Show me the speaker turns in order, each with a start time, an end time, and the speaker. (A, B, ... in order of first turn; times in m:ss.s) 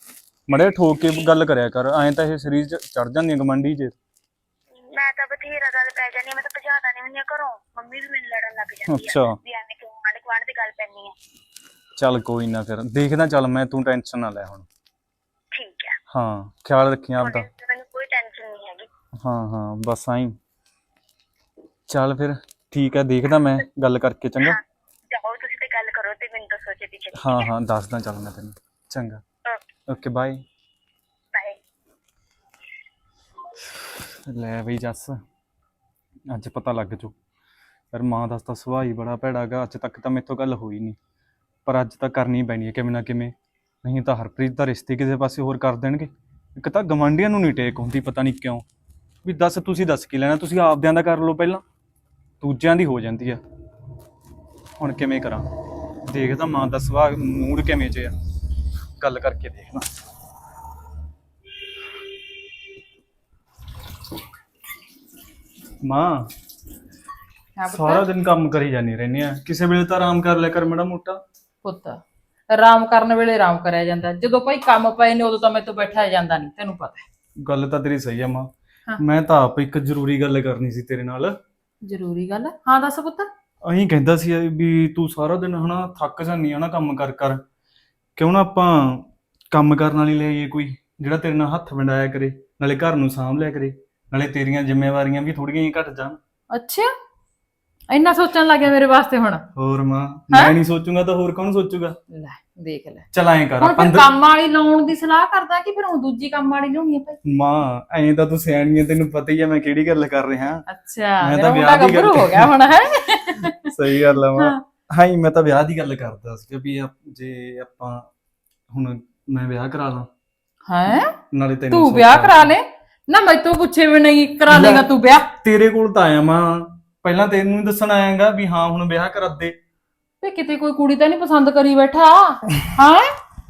0:00.5-0:03.9 A
0:04.8-0:11.1 B
0:08.8-0:09.4 A
0:12.0-0:14.6 A
0:15.5-0:15.9 B
0:16.1-0:17.4 A
0:17.2-0:18.9 B
0:19.2-0:20.4 A
0:21.9-0:24.6 A
0:25.1-0:27.5 B
0:27.2-0:29.2 A
0:29.9-0:30.4 A
0:33.7-0:35.2 A
0:36.3-0:37.1 A
0:37.9-0:41.0 A
0:41.6-0:48.6 A
0:49.2-0:51.6 A
0:52.4-0:53.4 A
0:54.8-0:55.4 A
0:56.1-0:58.1 A
0:59.0-0:59.8 A
1:05.8-1:06.3 A
1:07.6-1:08.0 C
1:07.6-1:11.2 A
1:11.6-1:12.0 C
1:12.5-1:17.0 C
1:17.4-1:21.4 A
1:21.8-1:23.3 C
1:23.6-1:27.4 A
1:28.2-1:36.2 A
1:36.5-1:36.9 C
1:37.9-1:39.4 C
1:39.6-1:42.0 A
1:42.1-1:43.0 C
1:43.1-1:44.1 A
1:43.6-1:47.2 C
1:47.2-1:50.6 A
1:50.7-1:53.7 C
1:51.2-1:52.5 A
1:53.7-1:58.0 A
1:58.7-2:00.1 A
2:00.7-2:01.1 C
2:01.3-2:02.5 A
2:01.7-2:05.3 C
2:04.5-2:04.9 A
2:05.4-2:09.5 A
2:10.2-2:13.1 C